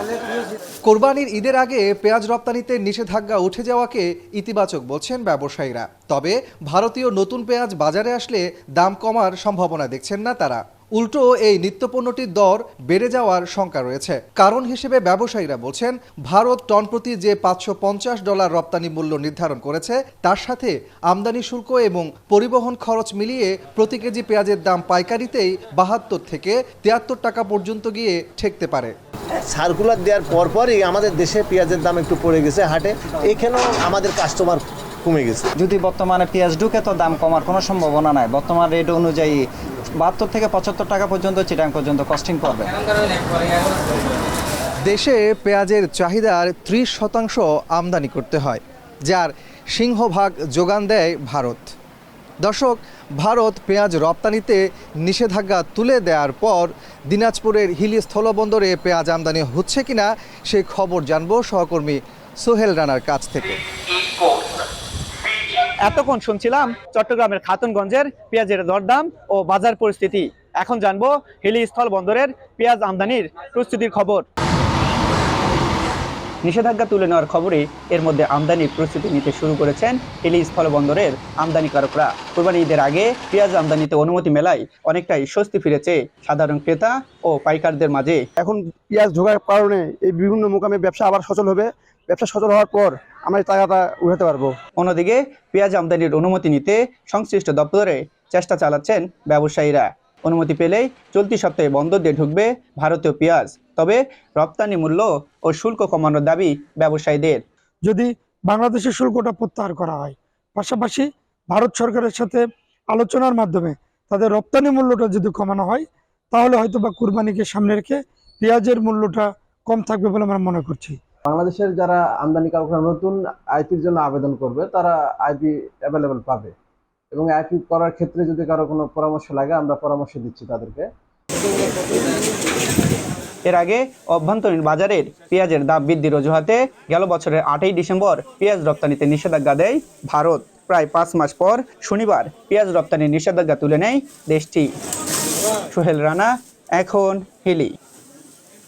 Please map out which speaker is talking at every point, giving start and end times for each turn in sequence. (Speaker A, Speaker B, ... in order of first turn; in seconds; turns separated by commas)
Speaker A: 0.8-28.9, Speaker B: 29.4-35.5, Speaker C: 35.7-39.4, Speaker C: 40.0-42.6, Speaker A: 44.9-51.6, Speaker A: 52.4-63.6, Speaker D: 65.8-74.2, Speaker D: 76.4-88.2, Speaker E: 88.4-94.5, Speaker D: 94.8-107.4, Speaker F: 107.8-121.0, Speaker G: 121.2-126.5, Speaker G: 127.1-130.9, Speaker D: 133.4-144.7, Speaker D: 145.7-147.7